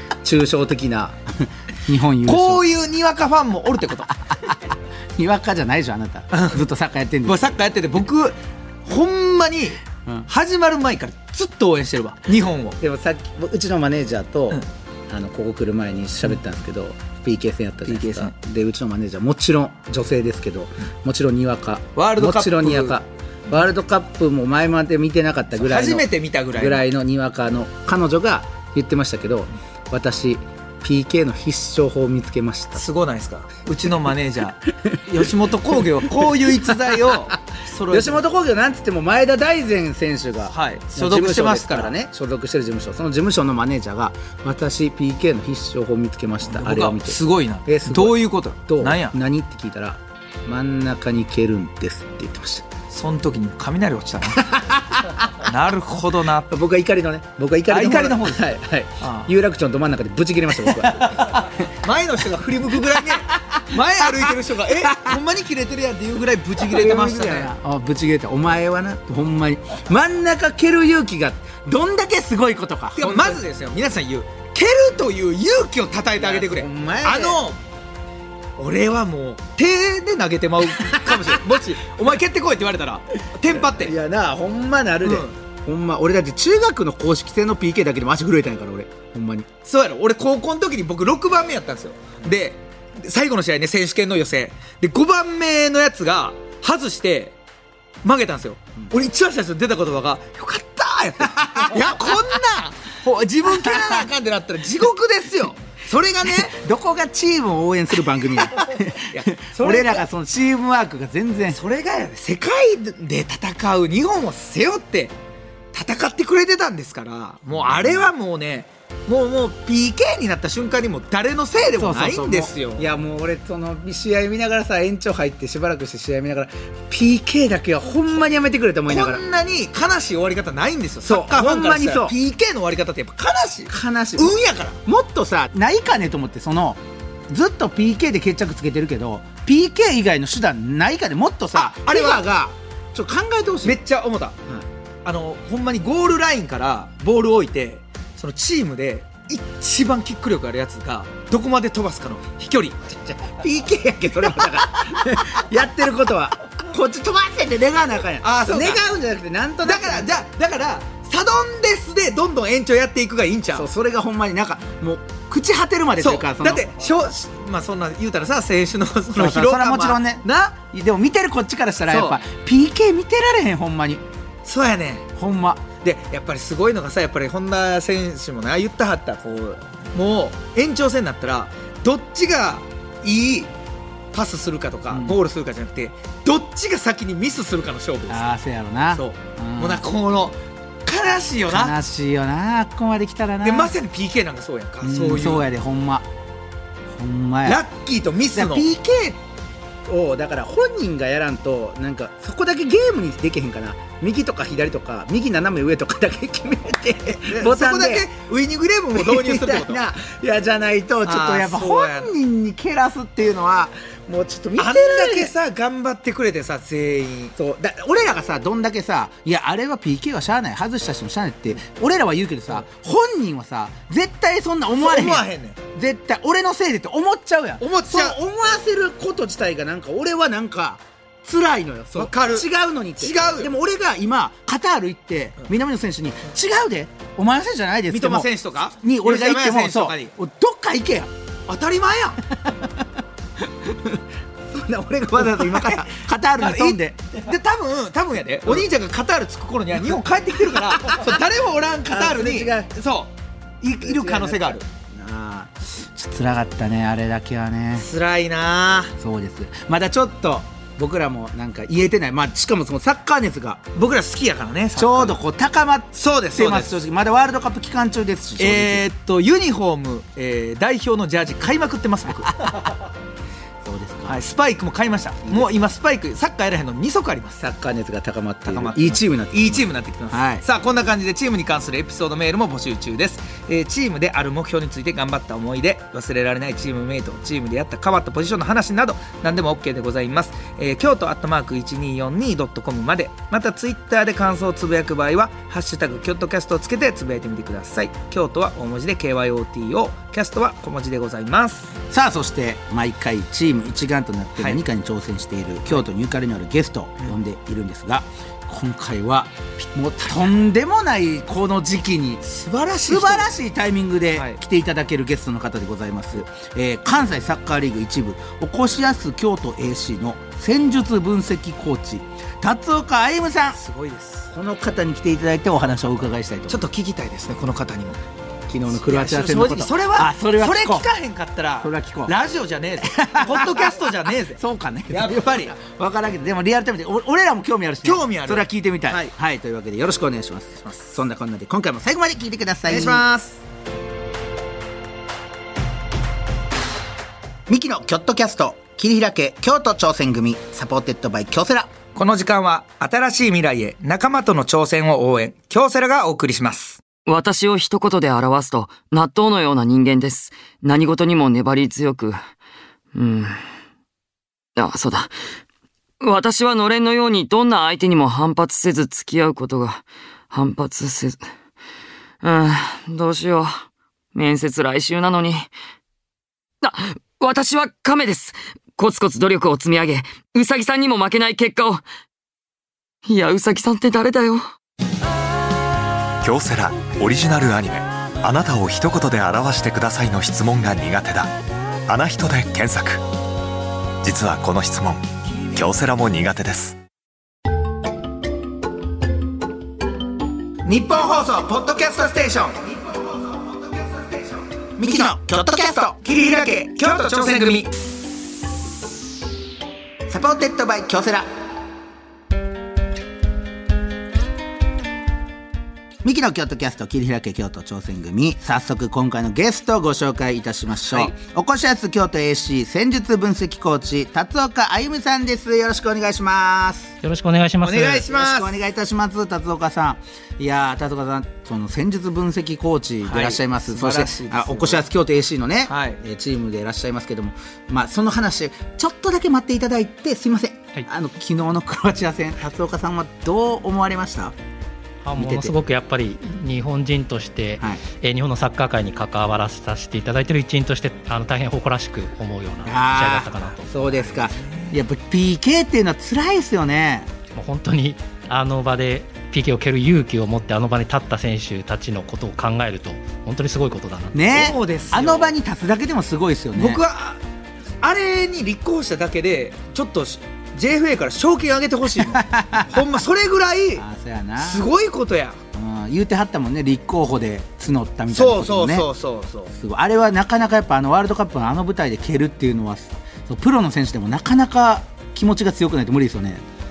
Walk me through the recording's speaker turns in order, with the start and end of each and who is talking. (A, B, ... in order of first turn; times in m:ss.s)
0:00.2-0:02.6 A
0:02.2-0:04.2 B
0:04.3-0:07.5 A
0:06.3-0:06.6 B
0:07.2-0:12.8 B
0:12.8-0:32.8 A
0:17.8-0:18.3 B
0:22.0-0:23.0 B
0:25.6-0:26.8 B
0:32.8-0:38.2 B
0:34.8-0:35.2 A
0:35.8-0:37.3 A
0:37.9-0:52.6 A
0:40.5-0:41.9 B
0:46.4-0:49.1 B
0:52.9-0:54.5 B
0:54.4-0:55.2 A
0:55.3-0:56.6 B
0:56.5-1:01.5 A
0:57.7-0:58.4 B
0:59.0-0:59.3 B
1:00.8-1:07.5 B
1:03.0-1:05.2 A
1:06.6-1:13.4 A
1:13.0-1:17.6 B
1:16.2-1:17.4 A
1:18.6-1:23.9 B
1:20.9-1:21.4 A
1:23.5-1:29.5 A
1:25.0-1:25.3 B
1:29.6-1:37.4 B
1:38.0-1:46.6 B
1:41.3-1:42.1 A
1:43.4-1:44.1 A
1:46.2-1:51.6 A
1:48.3-1:50.0 B
1:51.5-1:55.1 B
1:55.7-2:02.9 B
1:57.6-1:58.1 A
2:01.8-2:09.2 A
2:08.9-2:14.8 B
2:11.0-2:12.2 A
2:13.7-2:23.8 A
2:21.5-2:22.2 B
2:23.6-2:24.4 B
2:25.0-2:33.0 B
2:33.2-2:40.1 A
2:38.2-2:38.8 B
2:39.6-2:43.7 B
2:43.5-2:46.6 A
2:46.0-2:50.6 B
2:49.1-2:54.0 A
2:51.9-2:52.2 B
2:54.4-2:55.1 B
2:55.2-2:55.7 A
2:55.8-3:03.5 B
3:04.1-3:08.3 B
3:04.9-3:05.2 A
3:08.1-3:09.8 A
3:08.9-3:11.7 B
3:11.5-3:13.7 A
3:13.4-3:15.5 B
3:14.8-3:16.1 A
3:16.9-3:17.6 A
3:17.4-3:18.9 B
3:18.3-3:19.2 A
3:19.8-3:28.1 A
3:27.3-3:29.8 B
3:28.9-3:35.3 A
3:31.0-3:32.1 B
3:34.6-3:37.4 B
3:37.4-4:01.1 A
3:44.8-3:45.6 B
3:47.6-3:48.2 B
3:51.9-3:53.5 B
3:57.9-4:00.1 B
4:01.5-4:02.2 B
4:02.4-4:02.7 A
4:03.4-4:07.1 A
4:05.2-4:14.6 B
4:10.5-4:11.2 A
4:11.9-4:12.7 A
4:13.8-4:17.9 A
4:17.8-4:18.9 B
4:19.0-4:23.7 A
4:23.7-4:25.2 B
4:24.8-4:28.8 A
4:25.9-4:26.8 B
4:28.4-4:32.4 B
4:32.4-4:32.7 A
4:33.6-4:34.2 A
4:34.1-4:37.4 B
4:35.2-4:35.5 A
4:37.4-4:40.4 A
4:38.5-5:01.8 B
5:01.9-5:12.2 A
5:12.2-5:13.3 B
5:12.8-5:23.6 A
5:14.1-5:14.4 B
5:23.5-5:24.3 B
5:24.3-5:26.6 A
5:25.7-5:28.0 B
5:28.5-5:30.9 A
5:28.7-5:35.5 B
5:31.6-5:32.2 A
5:32.8-5:43.0 A
5:37.8-5:39.1 B
5:40.6-5:41.0 B
5:42.7-5:43.4 B
5:47.5-5:51.7 A
5:51.9-5:56.8 B
5:57.0-6:02.2 C
6:02.9-6:03.4 C
6:04.6-6:05.1 C
6:06.0-6:11.3 C
6:12.2-6:13.6 C
6:14.1-6:15.5 C
6:16.6-6:21.8 C
6:23.1-6:24.4 C
6:26.2-6:31.3 D
6:31.9-6:33.0 D
6:34.0-6:36.8 D
6:40.6-6:43.2 A
6:40.9-6:42.6 B
6:44.8-6:46.0 A
6:46.0-6:47.7 B
6:50.1-6:51.3 A
6:56.0-7:06.9 A
7:00.9-7:01.1 B
7:07.0-7:08.0 E
7:07.6-7:08.6 B
7:07.7-7:24.3 A
7:13.0-7:14.8 B
7:15.7-7:16.0 B
7:25.0-7:33.9 E
7:25.2-7:25.5 A
7:32.6-7:37.1 A
7:34.0-7:34.7 B
7:37.3-7:44.5 E
7:44.1-7:46.8 A
7:44.3-7:45.3 B
7:46.5-7:47.2 B
7:47.8-7:53.8 B
7:52.0-7:52.8 A
7:53.8-7:54.7 A
7:54.4-7:55.4 B
7:55.5-7:58.9 A
7:58.1-7:59.5 B
7:59.5-8:06.4 A